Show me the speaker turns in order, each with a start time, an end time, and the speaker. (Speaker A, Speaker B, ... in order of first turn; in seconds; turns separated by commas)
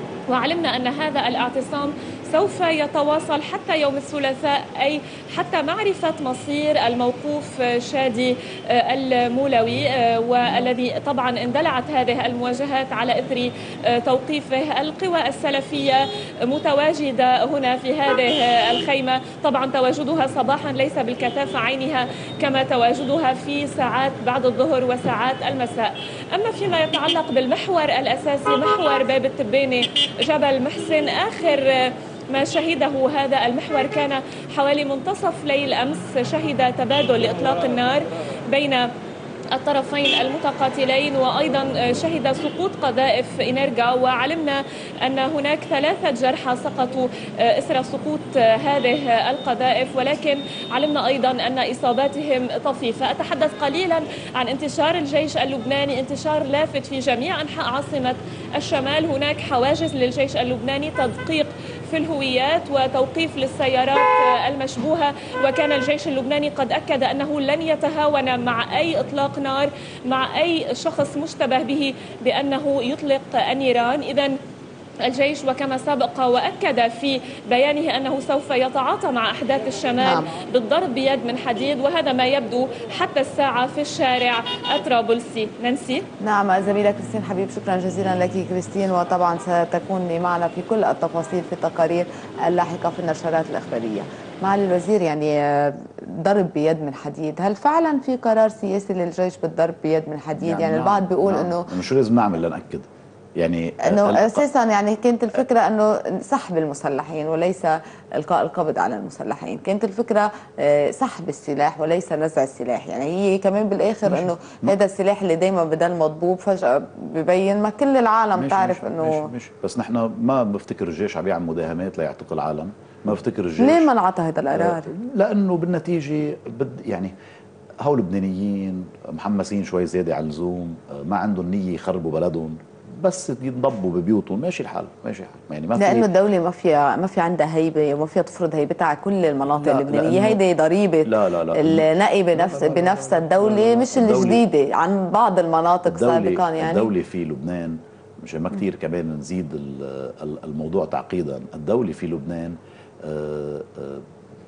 Speaker A: 0.3-38.9, Speaker A: 39.5-74.3, Speaker A: 75.0-86.1, Speaker B: 80.0-80.3, Speaker B: 86.2-101.7, Speaker C: 100.4-104.5, Speaker B: 103.8-119.3, Speaker C: 114.1-114.8, Speaker C: 118.3-123.9, Speaker B: 123.6-124.9, Speaker C: 124.5-127.1, Speaker C: 127.8-136.1, Speaker B: 135.8-146.9, Speaker C: 139.5-140.4, Speaker C: 141.1-144.4, Speaker C: 145.9-154.0